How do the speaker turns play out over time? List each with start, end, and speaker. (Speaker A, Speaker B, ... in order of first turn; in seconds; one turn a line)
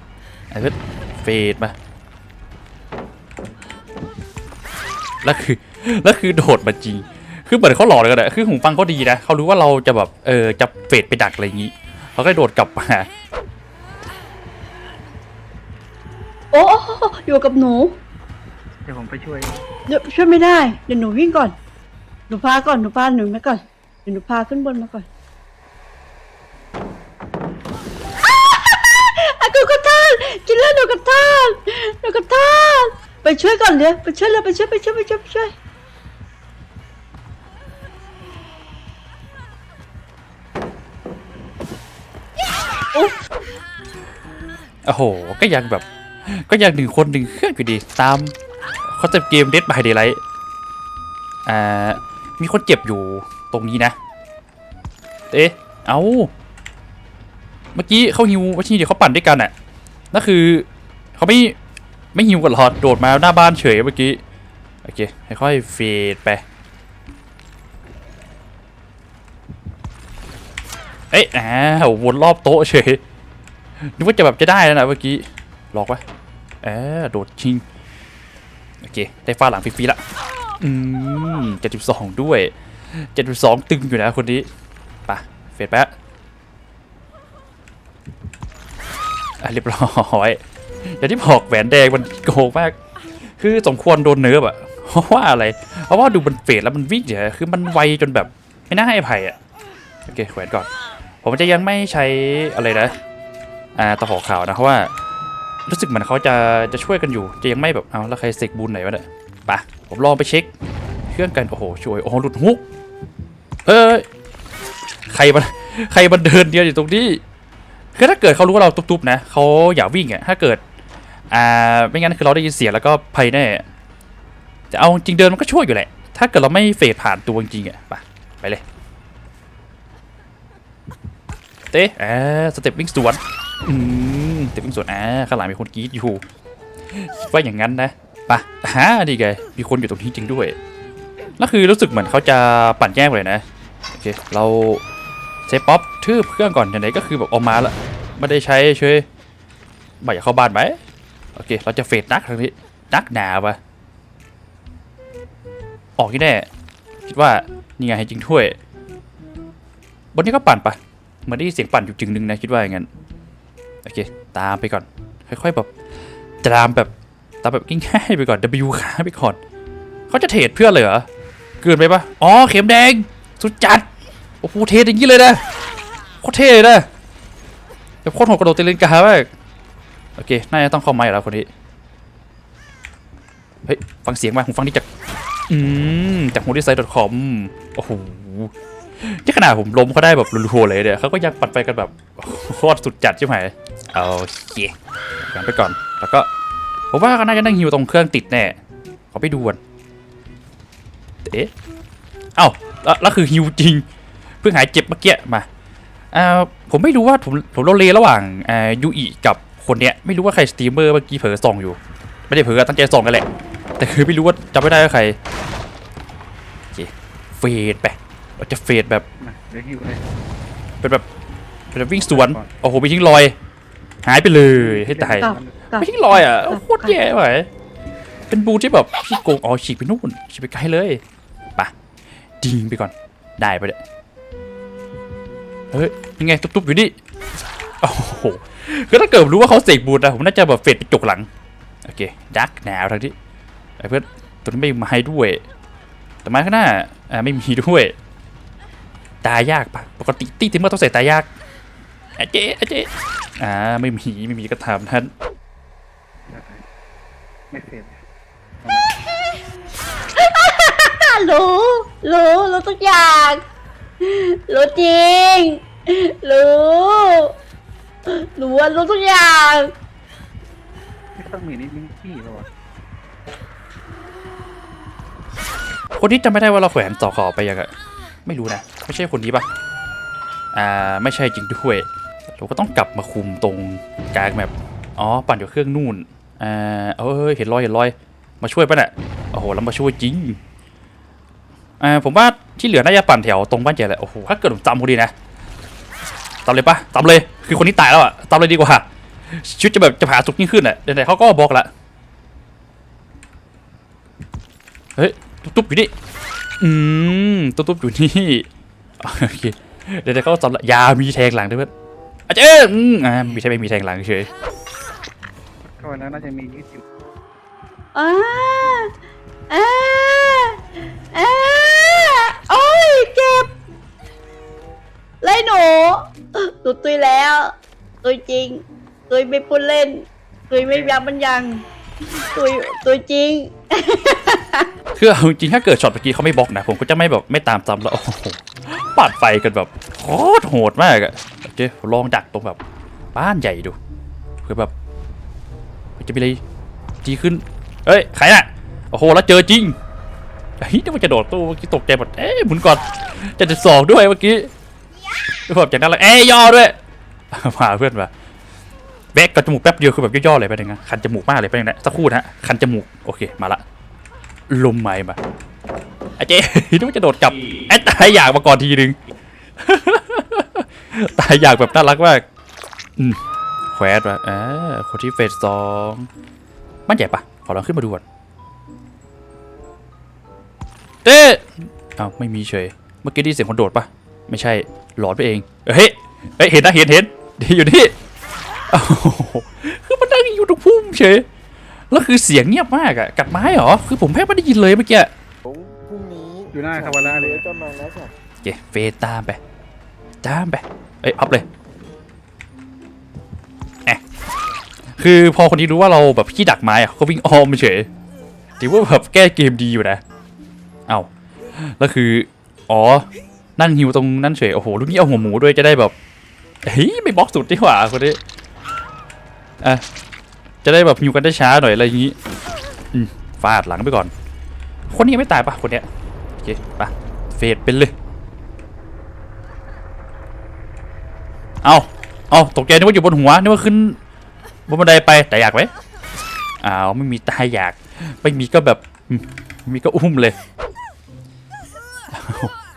Speaker A: 0.5-1.7
Speaker A: 5.2-13.1
Speaker B: 16.5-18.0
Speaker C: 18.8-19.6
Speaker B: 19.9-21.6
Speaker B: 22.3-25.1
Speaker B: 28.2-35.5
Speaker A: 44.8-48.3
Speaker A: 48.9-50.2
Speaker A: 51.4-54.0
Speaker A: 55.3-56.3
Speaker A: 57.7-59.5
Speaker A: 60.1-61.5
Speaker A: 62.1-64.2
Speaker A: 64.8-66.4
Speaker A: 71.1-73.0
Speaker A: 73.8-76.0
Speaker A: 76.6-77.6
Speaker A: 78.8-80.0
Speaker A: 80.6-84.5
Speaker A: 85.1-85.9
Speaker A: 89.4-92.8
Speaker A: 93.4-99.4
Speaker A: 100.0-100.7
Speaker A: 101.2-102.9
Speaker A: 103.7-104.9
Speaker A: 105.7-110.5
Speaker A: 111.1-112.6
Speaker A: 113.6-114.0
Speaker A: 115.1-117.2
Speaker A: 117.9-120.6
Speaker A: 121.3-123.6
Speaker A: 124.7-128.6
Speaker A: 131.7-136.2
Speaker A: 136.9-140.6
Speaker A: 141.4-144.8
Speaker A: 145.5-149.1
Speaker A: 150.0-150.8
Speaker A: 151.3-153.6
Speaker A: 156.0-156.5
Speaker A: 157.0-158.6
Speaker A: 160.1-162.9
Speaker A: 163.8-165.7
Speaker A: 166.4-166.9
Speaker A: 167.4-169.4
Speaker A: 170.1-171.1
Speaker A: 171.6-173.8
Speaker A: 174.4-175.4
Speaker A: 176.2-176.9
Speaker A: 178.0-179.3
Speaker A: 180.2-181.5
Speaker A: 183.7-184.8
Speaker A: 185.5-196.3
Speaker A: 196.9-198.6
Speaker A: 199.1-199.6
Speaker A: 201.2-201.5
Speaker A: 202.4-203.8
Speaker A: 204.4-205.5
Speaker A: 206.1-213.2
Speaker A: 213.8-215.2
Speaker A: 216.7-219.0
Speaker C: 219.2-220.0
Speaker A: 220.8-221.1
Speaker A: 221.7-223.3
Speaker C: 222.0-222.5
Speaker A: 224.0-227.5
Speaker C: 224.5-225.6
Speaker B: 225.2-227.0
Speaker A: 228.3-231.0
Speaker A: 232.4-233.8
Speaker A: 235.7-237.0
Speaker A: 237.8-241.3
Speaker A: 241.8-243.1
Speaker A: 243.8-245.4
Speaker A: 246.2-247.9
Speaker A: 249.2-251.3
Speaker A: 252.2-255.1
Speaker C: 256.3-256.6
Speaker C: 257.5-258.0
Speaker B: 260.2-263.4
Speaker B: 264.0-267.3
Speaker B: 268.1-269.7
Speaker C: 271.2-272.5
Speaker A: 275.9-277.7
Speaker A: 278.2-279.5
Speaker A: 280.5-290.4
Speaker A: 291.8-295.1
Speaker A: 296.4-301.7
Speaker A: 304.9-305.9
Speaker A: 306.6-308.5
Speaker A: 309.0-311.7
Speaker A: 312.3-314.3
Speaker C: 315.6-316.8
Speaker B: 317.9-318.9
Speaker B: 319.5-320.6
Speaker B: 321.1-323.5
Speaker B: 325.2-331.6
Speaker C: 330.7-331.0
Speaker B: 332.3-334.7
Speaker A: 334.9-342.6
Speaker A: 343.1-343.8
Speaker A: 344.4-344.7
Speaker A: 346.0-346.4
Speaker A: 347.0-349.8
Speaker A: 350.6-354.5
Speaker A: 355.5-356.8
Speaker A: 357.3-358.1
Speaker A: 359.1-363.6
Speaker A: 364.5-365.2
Speaker A: 366.2-369.0
Speaker A: 369.6-372.2
Speaker A: 373.7-376.1
Speaker A: 376.9-378.0
Speaker A: 381.0-387.9
Speaker A: 388.7-391.2
Speaker A: 391.9-395.1
Speaker D: 395.4-398.1
Speaker C: 396.5-397.5
Speaker A: 398.4-399.4
Speaker A: 400.2-401.4
Speaker A: 405.0-407.9
Speaker A: 408.6-410.0
Speaker A: 410.9-415.9
Speaker A: 416.6-418.2
Speaker A: 420.6-422.1
Speaker A: 422.9-424.1
Speaker A: 424.9-427.9
Speaker A: 431.6-434.0
Speaker A: 434.7-435.7
Speaker A: 436.6-440.4
Speaker A: 442.1-442.5